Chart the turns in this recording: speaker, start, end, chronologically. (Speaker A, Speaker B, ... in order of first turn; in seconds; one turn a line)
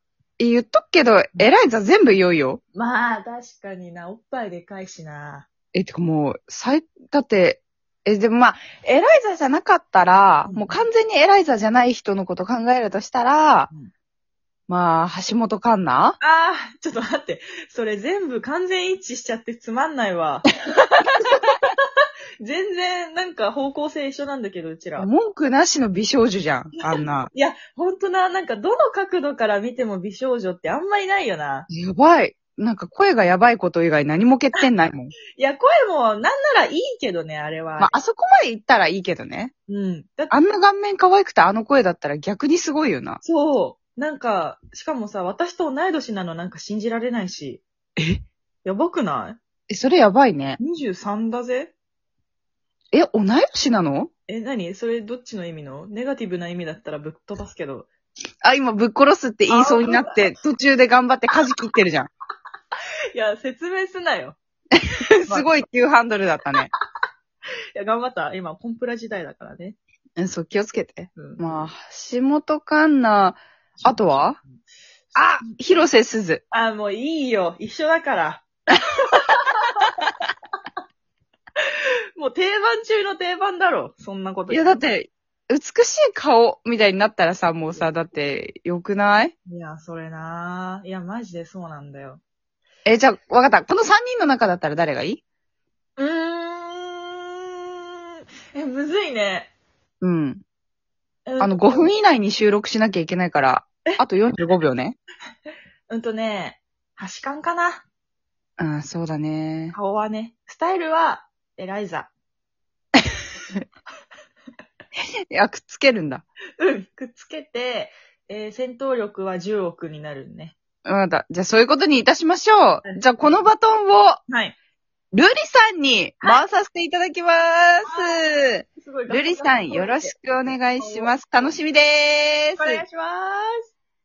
Speaker A: 0.4-2.6
Speaker B: 2.7-5.5
Speaker A: 5.7-13.7
Speaker B: 10.5-10.8
Speaker A: 14.7-16.2
Speaker B: 16.2-21.6
Speaker B: 22.4-25.1
Speaker A: 25.0-27.3
Speaker B: 26.9-31.7
Speaker A: 31.7-35.1
Speaker B: 35.4-37.9
Speaker A: 37.8-39.5
Speaker B: 39.7-40.3
Speaker A: 40.3-43.2
Speaker B: 43.2-47.6
Speaker B: 48.6-49.4
Speaker A: 49.7-50.6
Speaker B: 50.6-51.7
Speaker A: 52.9-54.1
Speaker B: 54.3-57.9
Speaker A: 58.4-62.1
Speaker B: 59.5-60.3
Speaker B: 63.1-64.4
Speaker A: 64.8-66.7
Speaker B: 65.3-65.6
Speaker B: 67.8-69.8
Speaker A: 70.2-74.4
Speaker B: 71.2-71.7
Speaker B: 73.8-74.6
Speaker B: 75.1-75.9
Speaker A: 75.1-76.4
Speaker B: 76.5-78.6
Speaker B: 79.1-79.9
Speaker B: 82.2-84.8
Speaker A: 84.5-89.3
Speaker B: 89.5-92.2
Speaker A: 92.8-95.2
Speaker B: 96.0-99.5
Speaker A: 100.0-100.4
Speaker B: 101.2-101.9
Speaker A: 101.4-105.0
Speaker B: 105.9-107.8
Speaker A: 108.6-109.8
Speaker B: 109.7-112.1
Speaker A: 115.3-116.2
Speaker B: 116.6-120.5
Speaker A: 120.8-124.2
Speaker B: 122.8-123.4
Speaker B: 124.3-124.5
Speaker A: 125.1-132.8
Speaker B: 127.8-131.1
Speaker B: 132.6-133.7